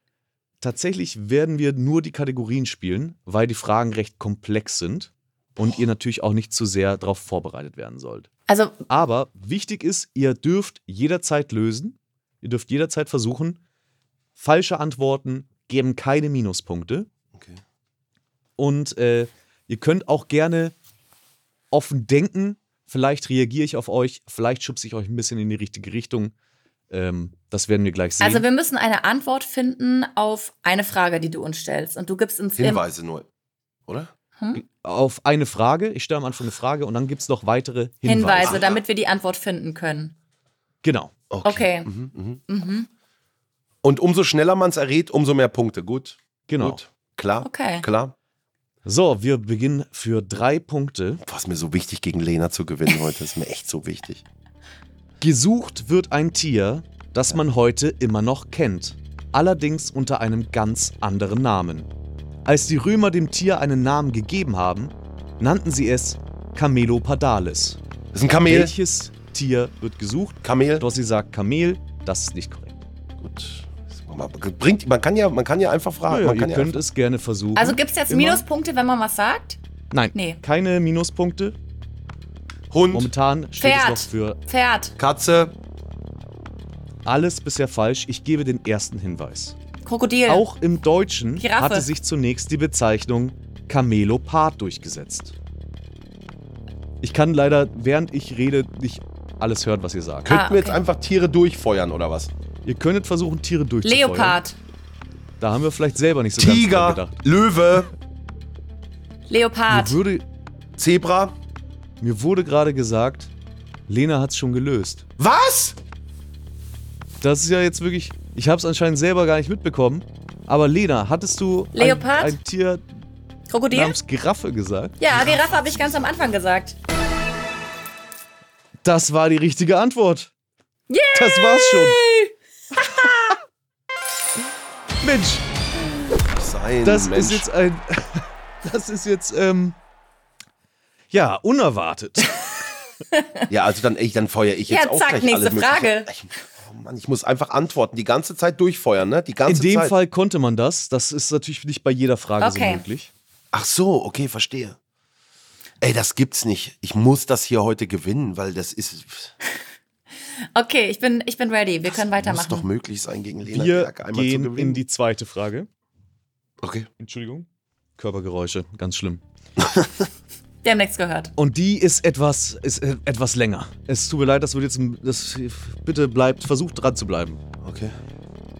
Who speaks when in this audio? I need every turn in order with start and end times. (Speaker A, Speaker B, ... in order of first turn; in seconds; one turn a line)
Speaker A: 0.6-8.3
Speaker B: 8.5-8.8
Speaker A: 8.9-13.6
Speaker A: 14.4-17.1
Speaker C: 17.3-17.6
Speaker A: 18.6-20.8
Speaker A: 21.7-26.3
Speaker A: 26.9-28.5
Speaker B: 28.2-32.8
Speaker C: 32.6-33.3
Speaker A: 34.5-38.6
Speaker B: 38.0-40.1
Speaker C: 38.4-38.8
Speaker A: 40.8-41.1
Speaker C: 41.3-42.4
Speaker B: 41.4-41.9
Speaker B: 42.5-42.9
Speaker C: 43.8-48.1
Speaker A: 46.5-46.8
Speaker B: 47.4-47.9
Speaker A: 48.9-51.2
Speaker C: 51.2-54.2
Speaker A: 55.2-61.9
Speaker A: 62.5-67.8
Speaker C: 68.1-68.8
Speaker A: 68.5-72.8
Speaker C: 70.4-70.8
Speaker C: 73.2-76.8
Speaker A: 76.1-78.5
Speaker B: 77.6-79.6
Speaker A: 79.9-81.6
Speaker B: 80.1-80.4
Speaker C: 82.7-83.1
Speaker A: 82.9-84.4
Speaker B: 83.6-85.0
Speaker C: 85.0-85.5
Speaker A: 87.0-89.6
Speaker B: 89.8-90.5
Speaker A: 90.3-95.4
Speaker B: 91.4-91.9
Speaker A: 97.0-100.3
Speaker C: 100.2-102.3
Speaker B: 100.3-100.8
Speaker A: 102.7-104.4
Speaker B: 103.8-104.6
Speaker A: 105.4-107.2
Speaker C: 106.4-107.9
Speaker B: 109.3-110.0
Speaker A: 109.7-110.2
Speaker C: 110.8-111.3
Speaker A: 112.0-113.3
Speaker A: 113.9-115.0
Speaker C: 115.2-115.8
Speaker A: 117.2-122.8
Speaker B: 121.8-122.4
Speaker B: 123.5-124.0
Speaker A: 123.7-125.0
Speaker B: 125.0-126.8
Speaker C: 125.2-126.1
Speaker A: 128.8-130.3
Speaker B: 130.9-133.3
Speaker A: 131.1-132.0
Speaker A: 135.0-135.4
Speaker C: 136.3-137.5
Speaker A: 136.8-139.8
Speaker A: 141.1-142.3
Speaker B: 143.1-143.5
Speaker C: 143.5-149.9
Speaker B: 144.7-146.1
Speaker A: 149.5-153.1
Speaker B: 152.4-152.8
Speaker C: 153.5-154.8
Speaker C: 155.8-159.3
Speaker B: 160.6-162.7
Speaker C: 161.9-164.8
Speaker A: 163.5-165.7
Speaker C: 166.6-166.9
Speaker A: 167.0-167.5
Speaker A: 168.0-169.2
Speaker C: 169.6-170.1
Speaker B: 170.6-171.3
Speaker A: 171.4-177.4
Speaker C: 177.6-177.9